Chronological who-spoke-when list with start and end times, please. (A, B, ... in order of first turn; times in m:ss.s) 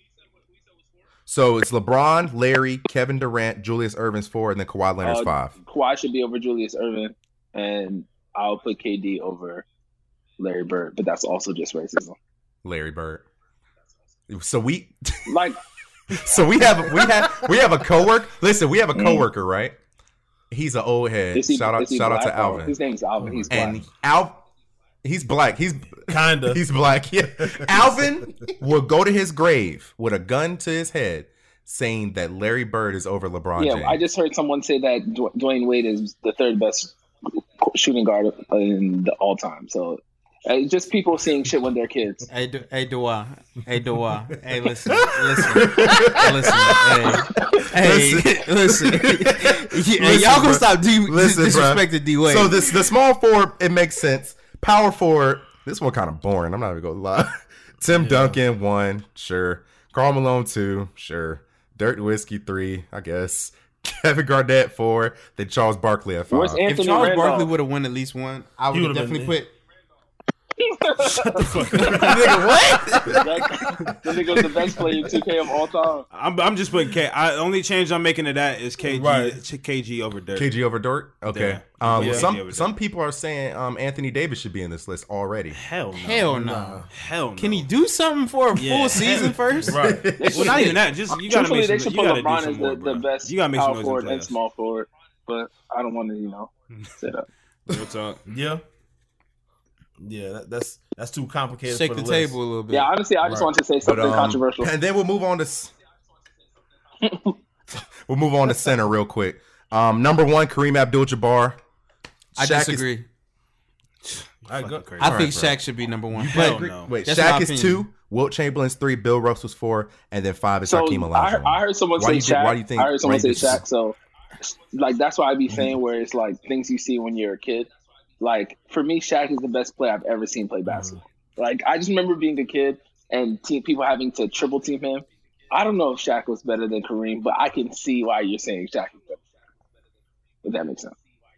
0:01.3-0:05.5 A
0:05.0-0:09.6 B
0:10.4-0:12.2 B
0:12.6-0:13.2 A
0:14.3-0:15.4 A
0:15.3-0:15.6 B
0:16.1-0:19.8 A
0:19.0-0:19.3 B
0:20.5-0:22.7 A
0:21.3-0:23.8 B
0:23.2-0:23.8 C
0:23.5-0:24.4 A
0:25.0-0:34.0 A
0:26.0-0:26.6 C
0:33.6-0:36.9 B
0:37.6-0:42.3 B
0:42.3-0:52.7 D
0:44.9-0:46.8 C
0:45.5-1:06.9 A
0:57.9-0:58.4 C
1:06.3-1:07.5 B
1:06.6-1:09.5 D
1:08.7-1:09.4 C
1:10.6-1:16.1 B
1:11.1-1:12.3 E
1:11.5-1:12.1 C
1:11.8-1:13.3 D
1:14.4-1:15.1 A
1:16.1-1:20.5 E
1:18.8-1:19.4 C
1:20.4-1:25.6 A
1:21.3-1:22.7 E
1:22.0-1:22.3 C
1:25.6-1:26.3 E
1:26.0-1:29.9 D
1:26.1-1:26.9 C
1:26.9-1:27.7 E
1:28.6-1:29.7 E
1:29.7-1:30.1 C
1:29.8-1:30.8 A
1:30.2-1:37.3 B
1:30.3-1:34.3 E
1:37.7-1:38.2 E
1:38.3-1:38.6 C
1:40.0-1:42.4 C
1:41.7-1:43.5 D
1:42.7-1:44.7 B
1:43.8-1:45.7 A
1:47.0-1:47.4 B
1:48.1-1:51.6 A
1:52.4-1:52.9 A
1:52.4-1:53.1 D
1:54.0-1:55.3 E
1:54.5-1:55.0 C
1:55.0-1:55.6 A
1:55.0-1:57.8 D
1:56.1-1:56.9 E
1:56.2-2:03.6 A
2:00.7-2:07.7 B
2:05.5-2:05.8 C
2:08.2-2:19.2 B
2:10.7-2:11.0 C
2:20.4-2:21.0 B